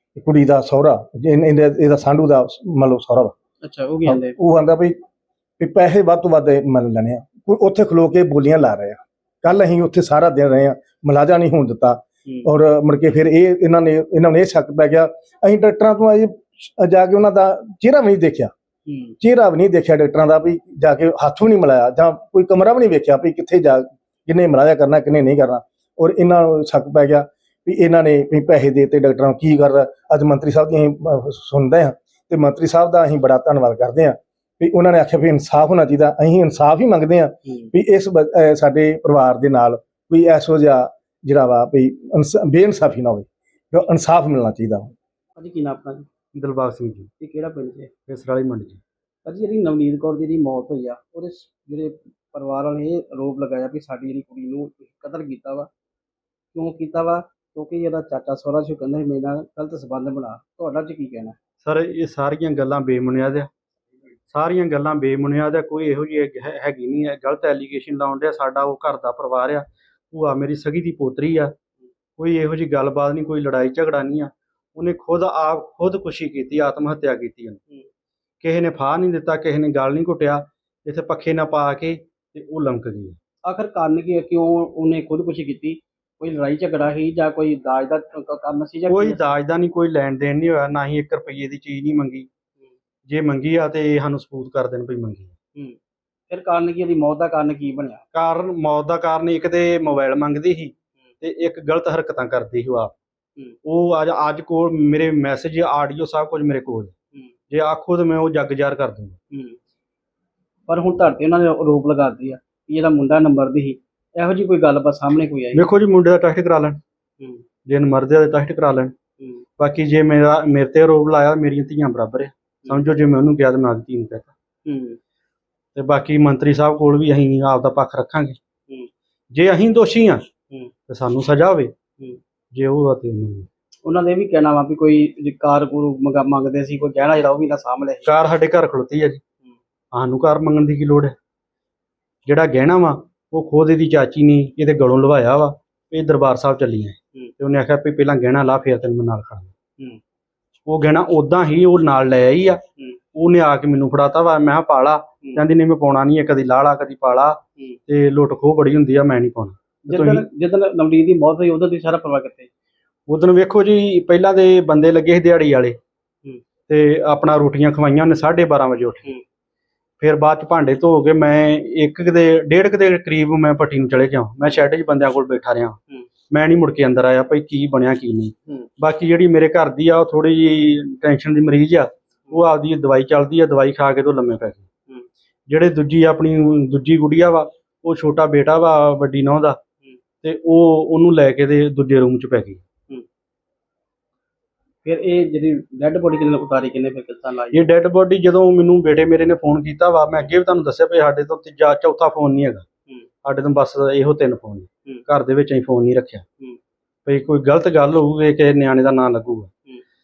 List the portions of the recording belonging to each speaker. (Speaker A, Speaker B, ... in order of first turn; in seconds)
Speaker A: 0.2-3.3, 4.0-4.9, 5.6-18.5, 19.2-44.9
Speaker B: 3.6-4.3, 18.9-19.1, 45.4-46.1, 47.2-47.9, 49.2-55.7, 56.5-61.3, 83.4-89.3, 96.3-98.0, 109.3-109.6, 110.7-115.6, 117.2-117.4, 119.2-119.4, 124.7-125.0, 133.8-138.1, 159.9-162.5, 194.8-197.6
Speaker C: 46.3-47.1, 48.1-48.8, 61.6-63.5, 64.3-71.5, 72.2-77.6, 78.4-83.2, 88.9-92.3, 93.1-95.3, 98.1-102.9, 103.7-106.9, 107.5-109.2, 115.5-116.8, 117.7-118.9, 119.6-124.3, 125.8-128.4, 129.3-130.2, 130.9-131.7, 132.5-133.5, 138.1-139.2, 139.9-141.1, 142.3-149.5, 150.7-152.6, 153.1-160.2, 163.1-165.8, 166.7-169.1, 170.0-175.8, 176.3-184.7, 185.5-189.6, 190.2-192.6, 197.5-202.6, 203.2-206.2, 207.1-209.5